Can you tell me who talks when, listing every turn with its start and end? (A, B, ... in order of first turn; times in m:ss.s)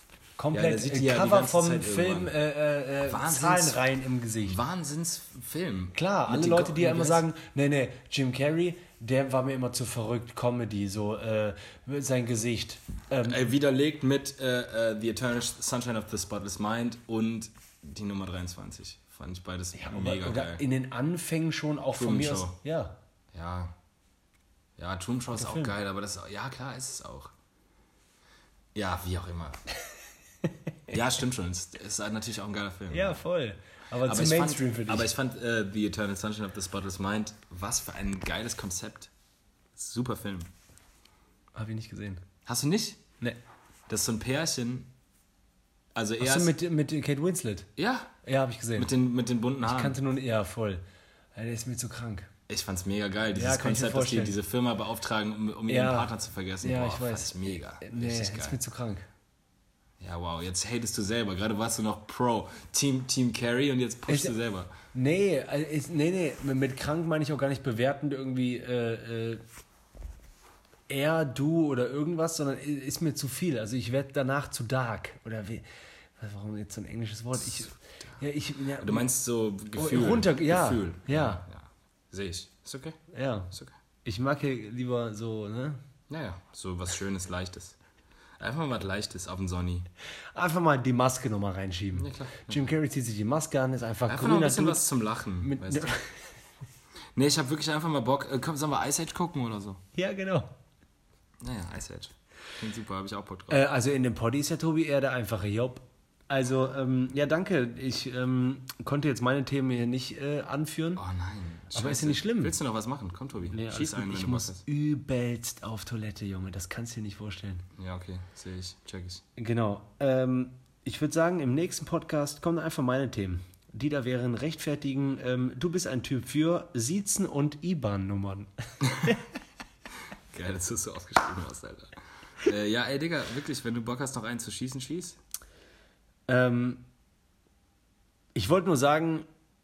0:00.4-0:04.6 A
0:00.5-0:02.3 B
0:03.1-0:03.8 B
0:04.4-0:07.2 B
0:06.0-0:13.4 A
0:13.2-0:20.6 B
0:19.8-0:23.0 A
0:22.0-0:22.6 B
0:23.3-0:23.8 B
0:24.8-0:27.3 B
0:25.3-0:25.8 A
0:28.8-0:29.6 B
0:30.9-0:33.2 B
0:32.9-0:35.1 A
0:34.0-0:39.1 B
0:39.8-0:40.5 B
0:41.5-0:42.2 A
0:42.5-0:43.0 B
0:43.9-0:44.9 B
0:46.0-0:46.5 B
0:46.2-0:47.7 A
0:47.8-0:48.1 B
0:48.2-0:48.9 A
0:48.8-0:50.0 B
0:49.6-0:50.8 A
0:51.4-0:52.3 A
0:52.5-0:58.6 B
0:53.3-0:54.4 A
0:55.7-0:59.1 A
1:00.0-1:04.7 B
1:04.1-1:04.3 A
1:04.9-1:09.4 A
1:10.9-1:15.6 A
1:16.2-1:19.1 A
1:18.8-1:23.0 B
1:19.7-1:21.4 A
1:23.1-1:23.5 A
1:24.0-1:25.8 A
1:26.1-1:27.8 B
1:28.4-1:29.9 B
1:30.3-1:34.9 A
1:32.0-1:32.7 B
1:34.1-1:35.9 B
1:35.4-1:36.2 A
1:37.2-1:39.8 B
1:40.0-1:40.5 A
1:41.4-1:43.6 B
1:43.5-1:51.0 A
1:51.0-1:54.6 B
1:51.7-1:52.6 A
1:53.5-1:57.6 A
1:57.8-1:59.2 B
1:59.4-2:08.5 A
2:08.8-2:09.1 B
2:10.3-2:15.2 B
2:16.3-2:16.8 A
2:18.4-2:19.3 A